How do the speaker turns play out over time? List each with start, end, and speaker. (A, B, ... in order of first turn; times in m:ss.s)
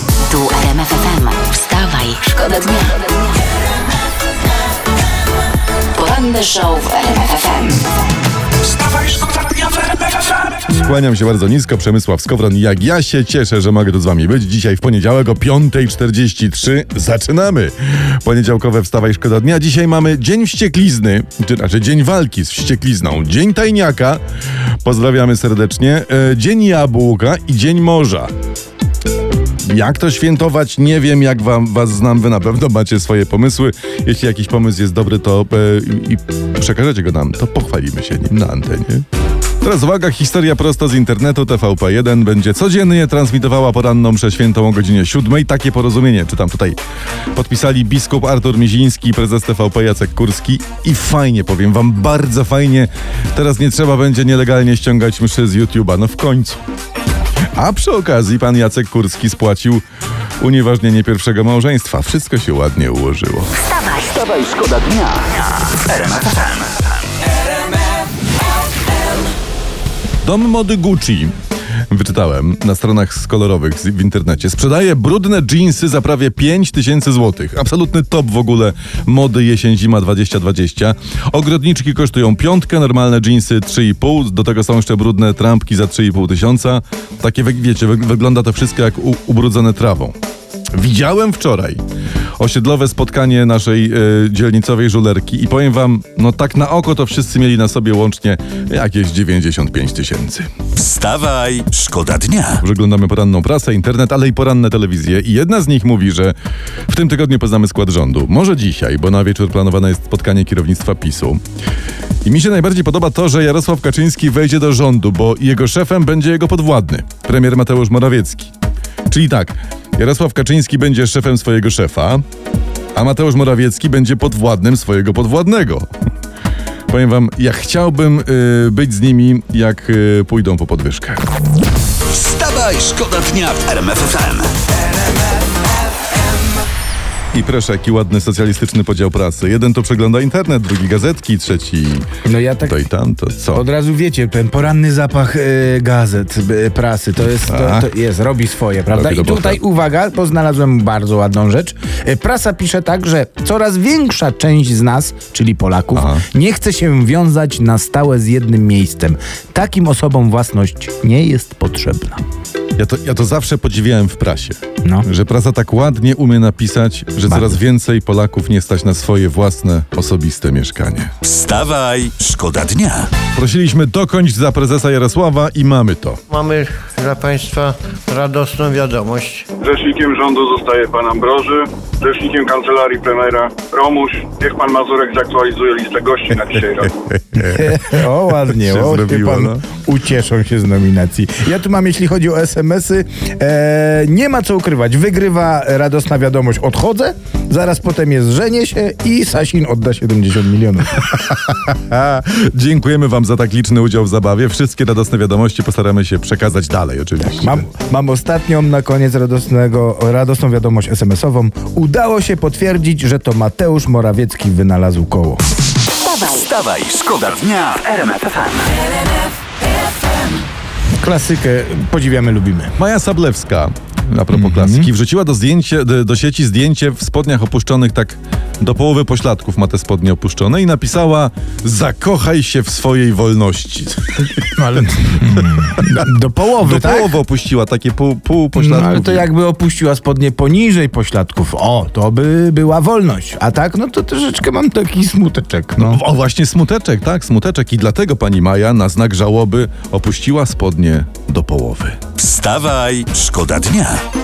0:00.3-0:03.0 A
0:05.9-0:07.8 A
0:08.8-0:09.4 B
0:10.7-0:24.2 C
0:24.8-0:28.3 C
0:29.6-0:39.0 C
0:39.6-0:46.8 C
0:47.4-0:56.6 C
0:57.6-0:59.8 C
1:00.4-1:03.6 C
1:03.6-1:04.1 A
1:04.0-1:06.9 B
1:10.2-1:11.4 C
1:11.9-1:30.2 C
1:30.7-1:31.8 C
1:32.4-1:40.5 C
1:40.8-1:42.6 B
1:42.6-1:46.4 C
1:46.9-1:51.4 C
1:52.2-1:58.5 C
1:59.1-2:02.2 C
2:03.0-2:05.9 C
2:06.9-2:11.2 C
2:12.1-2:14.5 B
2:17.3-2:22.1 C
2:22.2-2:22.8 D
2:22.6-2:23.6 C
2:23.5-2:42.2 D
2:27.4-2:27.9 C
2:28.9-2:29.6 C
2:35.9-2:36.2 C
2:42.8-2:51.1 C
2:47.3-2:47.6 D
2:51.2-2:53.1 B
2:53.3-2:56.2 C
2:56.3-2:59.5 E
2:59.6-3:06.9 F
3:07.0-3:09.6 C
3:07.4-3:21.0 D
3:21.1-3:27.7 C
3:27.4-3:35.4 D
3:36.1-3:38.7 B
3:41.0-3:42.8 D
3:42.8-3:54.8 C
3:44.3-3:44.9 D
3:54.6-3:57.2 D
3:55.6-3:56.1 C
3:56.6-3:59.3 C
3:58.6-4:06.0 D
4:05.8-4:12.0 C
4:12.2-4:14.0 B